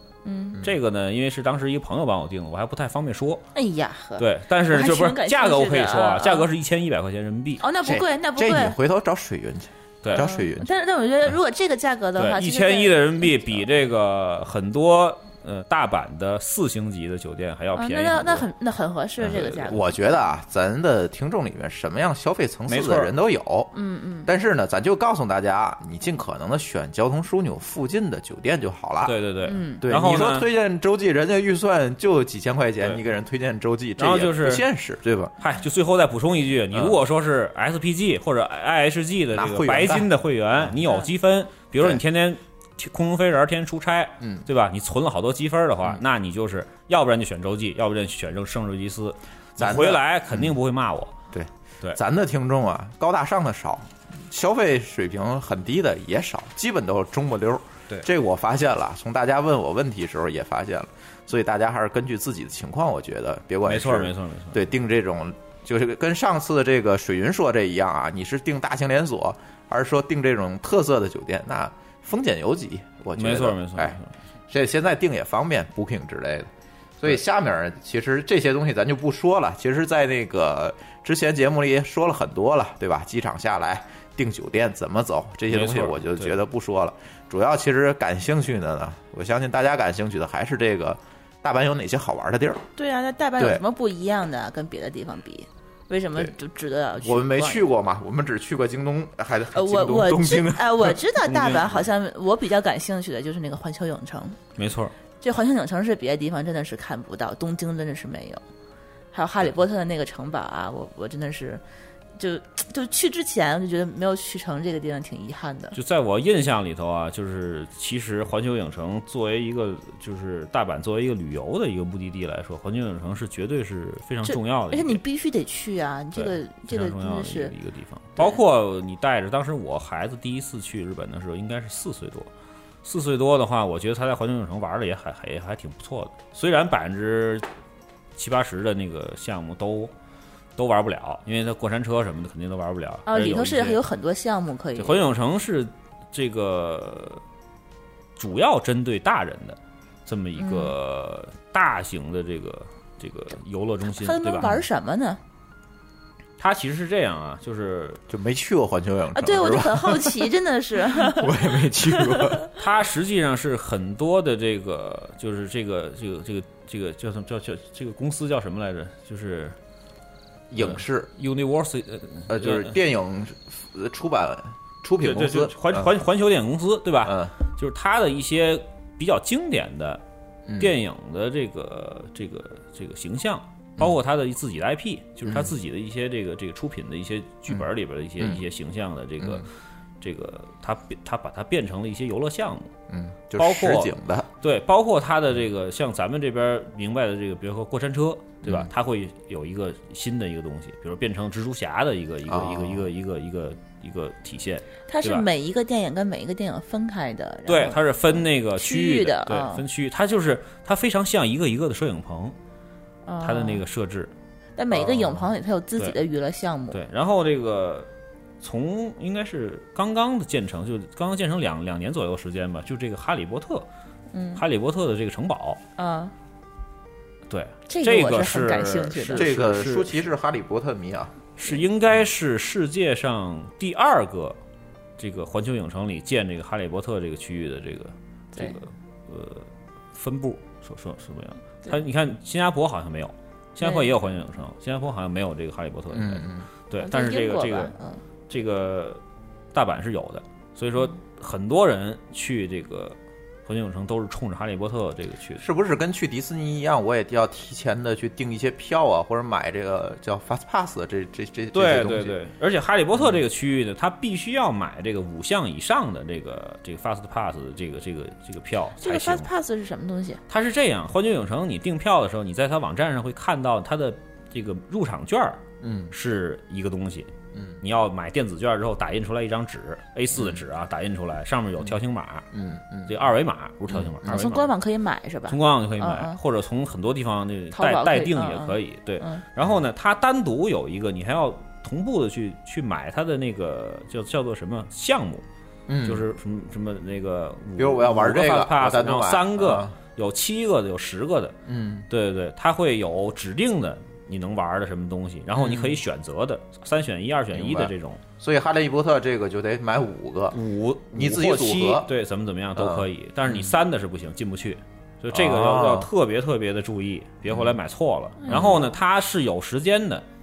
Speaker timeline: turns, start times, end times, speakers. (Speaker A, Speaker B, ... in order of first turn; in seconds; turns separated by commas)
Speaker A: 0.2-0.6, Speaker B: 0.6-3.4, Speaker A: 3.5-6.5, Speaker B: 4.2-7.6, Speaker A: 7.6-8.8, Speaker C: 7.8-10.7, Speaker A: 10.1-13.6, Speaker B: 12.2-18.4, Speaker A: 17.8-19.9, Speaker C: 19.2-23.7, Speaker B: 22.7-23.1, Speaker A: 23.7-24.3, Speaker C: 24.2-29.1, Speaker B: 29.0-30.5, Speaker A: 29.4-29.8, Speaker C: 29.8-35.3, Speaker B: 34.0-34.6, Speaker B: 35.4-51.1, Speaker C: 36.7-37.0, Speaker C: 39.3-40.7, Speaker C: 44.2-44.5, Speaker C: 49.6-50.5, Speaker C: 51.3-74.0, Speaker B: 63.6-64.7, Speaker B: 73.2-74.1, Speaker C: 74.5-92.7, Speaker B: 85.5-86.4, Speaker A: 92.8-97.7, Speaker C: 93.4-93.6, Speaker C: 97.0-101.0, Speaker A: 99.5-104.4, Speaker B: 101.2-101.7, Speaker B: 104.6-104.9, Speaker A: 105.2-108.4, Speaker A: 109.1-111.6, Speaker A: 112.2-115.8, Speaker B: 115.7-125.0, Speaker A: 124.2-127.5, Speaker B: 126.1-132.3, Speaker B: 132.8-137.4, Speaker B: 138.2-139.9, Speaker B: 140.6-143.8, Speaker A: 143.1-145.0, Speaker B: 144.8-147.2, Speaker B: 148.2-154.5, Speaker A: 150.4-150.7, Speaker A: 153.9-155.2, Speaker B: 156.4-158.0, Speaker C: 158.1-160.3, Speaker A: 159.1-161.3, Speaker C: 160.9-162.4, Speaker A: 162.1-162.4, Speaker B: 162.6-169.6, Speaker C: 170.5-171.1, Speaker B: 170.6-172.7, Speaker C: 172.3-175.9, Speaker B: 175.0-180.0, Speaker C: 177.0-177.3, Speaker C: 180.5-180.7, Speaker B: 180.6-189.5, Speaker C: 185.2-185.5, Speaker C: 189.2-189.4, Speaker B: 190.0-192.7, Speaker C: 192.9-194.3, Speaker B: 193.3-205.3, Speaker C: 198.4-198.7, Speaker C: 202.3-202.9, Speaker A: 204.9-209.6, Speaker B: 207.5-212.3, Speaker A: 213.1-213.6, Speaker B: 213.2-214.1, Speaker A: 214.6-216.8, Speaker B: 214.7-216.0, Speaker B: 216.7-217.9, Speaker B: 218.4-223.7, Speaker A: 224.1-224.4, Speaker B: 224.3-225.6, Speaker A: 225.8-226.1, Speaker B: 227.3-230.0, Speaker A: 227.7-229.3, Speaker C: 229.1-231.1, Speaker B: 231.4-234.4, Speaker B: 235.0-247.7, Speaker A: 243.6-243.9, Speaker C: 245.9-246.5, Speaker A: 246.8-248.0, Speaker B: 248.3-249.0, Speaker B: 249.5-255.4, Speaker C: 255.4-262.2, Speaker B: 261.5-269.3, Speaker A: 268.8-270.2, Speaker B: 270.3-277.1, Speaker C: 275.6-275.9, Speaker C: 277.3-277.6, Speaker B: 277.6-282.3, Speaker C: 280.1-280.4, Speaker C: 282.3-283.0, Speaker B: 282.9-284.5, Speaker C: 283.7-284.3, Speaker A: 284.1-286.2, Speaker B: 285.3-295.2, Speaker A: 287.5-289.2, Speaker C: 295.7-296.0, Speaker B: 295.8-301.3, Speaker C: 297.6-299.7, Speaker C: 301.4-301.9, Speaker B: 301.9-308.0, Speaker C: 305.3-305.8, Speaker C: 307.3-310.4, Speaker B: 310.3-320.0, Speaker C: 310.9-311.9, Speaker C: 312.6-313.6, Speaker C: 315.1-315.9, Speaker C: 317.3-317.6, Speaker C: 318.3-318.7